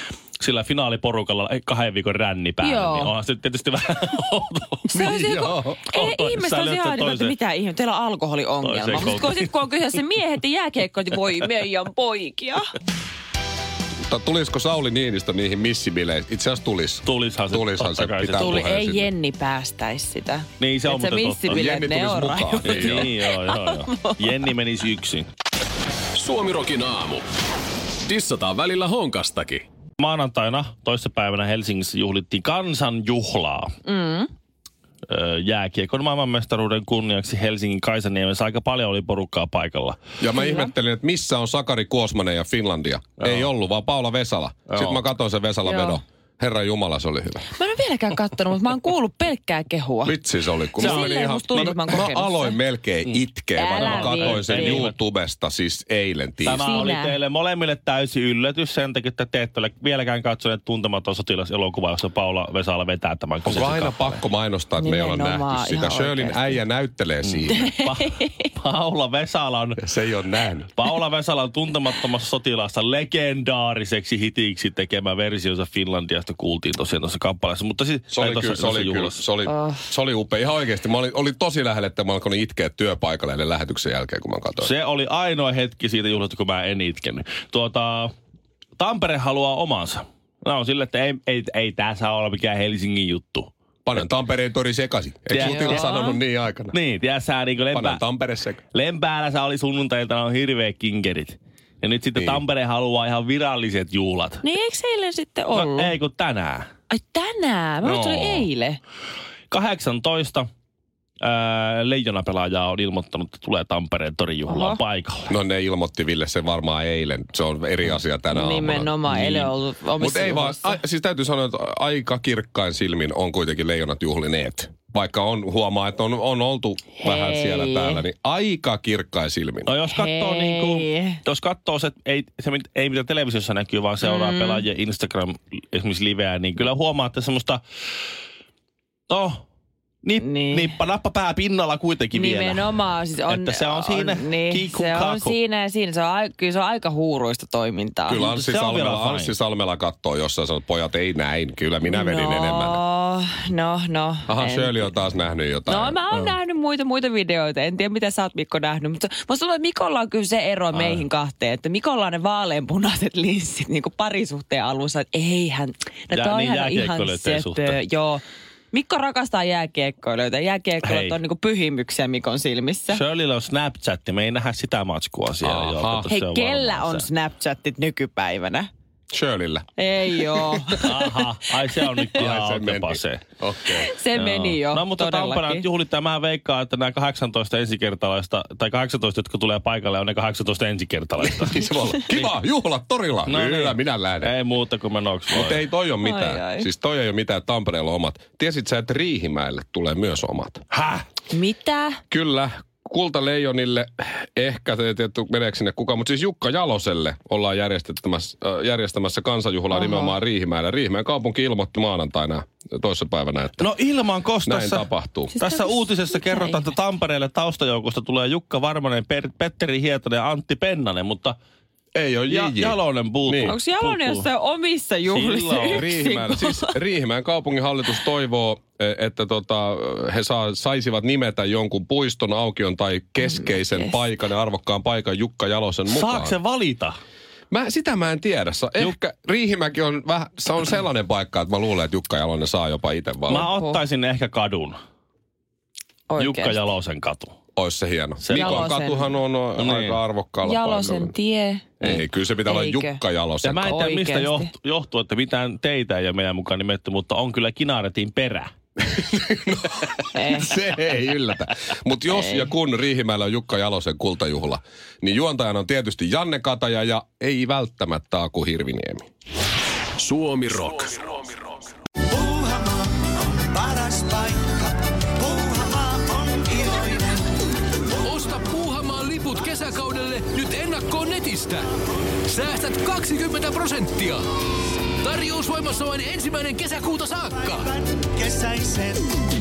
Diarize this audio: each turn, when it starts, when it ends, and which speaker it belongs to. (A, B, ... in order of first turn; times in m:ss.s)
0:00.4-0:05.2 A
0:02.6-0:03.1 B
0:04.9-0:12.7 B
0:04.9-0:05.8 C
0:05.9-0:07.4 A
0:08.6-0:09.5 A
0:14.1-0:19.1 C
0:17.0-0:18.7 A
0:18.4-0:24.4 B
0:20.6-0:21.6 A
0:21.5-0:23.1 C
0:22.6-0:25.3 A
0:26.2-0:27.2 D
0:28.1-0:29.6 D
0:30.0-0:33.8 A
0:33.8-0:34.3 B
0:35.1-0:40.0 A
0:40.2-0:47.5 C
0:40.4-0:40.7 B
0:43.2-0:43.5 A
0:44.7-0:45.0 A
0:45.6-0:46.0 B
0:47.6-0:50.2 B
0:50.0-0:56.7 C
0:50.8-0:52.6 B
0:50.8-0:51.1 A
0:53.6-0:54.9 B
0:53.8-0:55.0 A
0:56.4-1:04.2 A
0:56.6-0:57.2 B
1:03.4-1:07.6 C
1:04.8-1:06.6 B
1:07.2-1:09.9 A
1:07.5-1:08.4 B
1:09.8-1:10.7 C
1:10.8-1:19.2 A
1:18.1-1:24.7 C
1:19.5-1:19.8 B
1:24.6-1:28.1 A
1:28.8-1:33.5 A
1:33.9-1:36.8 C
1:35.3-1:36.0 A
1:35.4-1:36.2 B
1:36.7-1:38.0 A
1:37.7-1:38.6 C
1:38.7-1:44.4 A
1:42.2-1:42.4 C
1:44.4-1:45.9 B
1:45.5-1:46.7 A
1:46.9-1:48.8 B
1:47.8-1:48.5 C
1:49.5-1:50.5 A
1:51.2-1:55.3 A
1:54.5-1:54.8 B
1:55.3-2:09.7 C
1:58.3-2:00.8 B
2:07.0-2:08.0 B
2:09.7-2:17.6 A
2:09.9-2:11.2 B
2:14.0-2:14.7 B
2:19.1-2:19.4 A
2:20.0-2:25.4 A
2:20.2-2:20.7 B
2:22.1-2:28.3 B
2:28.1-2:32.8 C
2:28.1-2:29.4 A
2:31.8-2:34.9 B
2:34.3-2:36.0 C
2:35.7-2:53.0 B
2:40.7-2:41.0 A
2:46.1-2:47.8 A
2:50.8-2:51.2 A
2:52.9-2:57.1 A
2:55.4-2:56.1 C
2:56.1-2:58.7 B
2:59.1-3:00.9 C
2:59.8-3:01.1 B
3:00.8-3:03.2 A
3:02.2-3:03.9 C
3:03.7-3:05.7 B
3:04.1-3:12.4 A
3:11.2-3:14.3 C
3:13.3-3:15.6 A
3:15.3-3:20.6 C
3:16.0-3:16.7 B
3:20.7-3:21.0 A
3:21.3-3:22.0 B
3:22.1-3:33.7 C
3:29.7-3:30.1 B
3:33.6-3:41.4 A
3:34.5-3:35.3 C
3:35.3-3:36.7 B
3:42.0-3:43.6 C
3:42.3-3:44.3 A
3:43.4-3:46.8 B
3:45.1-3:45.9 A
3:45.7-3:56.4 C
3:53.2-3:54.0 B
3:55.9-3:57.0 A
3:57.5-4:03.5 C
4:03.3-4:03.8 B
4:03.3-4:04.8 A
4:06.1-4:06.6 B
4:06.2-4:07.4 A
4:07.6-4:11.1 C
4:08.2-4:08.7 A
4:08.3-4:09.2 B
4:09.6-4:10.0 A
4:10.4-4:11.7 B
4:11.8-4:13.8 C
4:12.4-4:13.0 B
4:13.4-4:18.5 A
4:13.6-4:14.5 B
4:18.8-4:29.0 C
4:20.1-4:20.6 B
4:22.1-4:22.5 B
4:30.0-4:31.2 D
4:32.1-4:37.3 E
4:38.0-4:41.7 F
4:42.3-4:44.2 F
4:45.0-4:47.7 F
4:47.3-4:49.1 E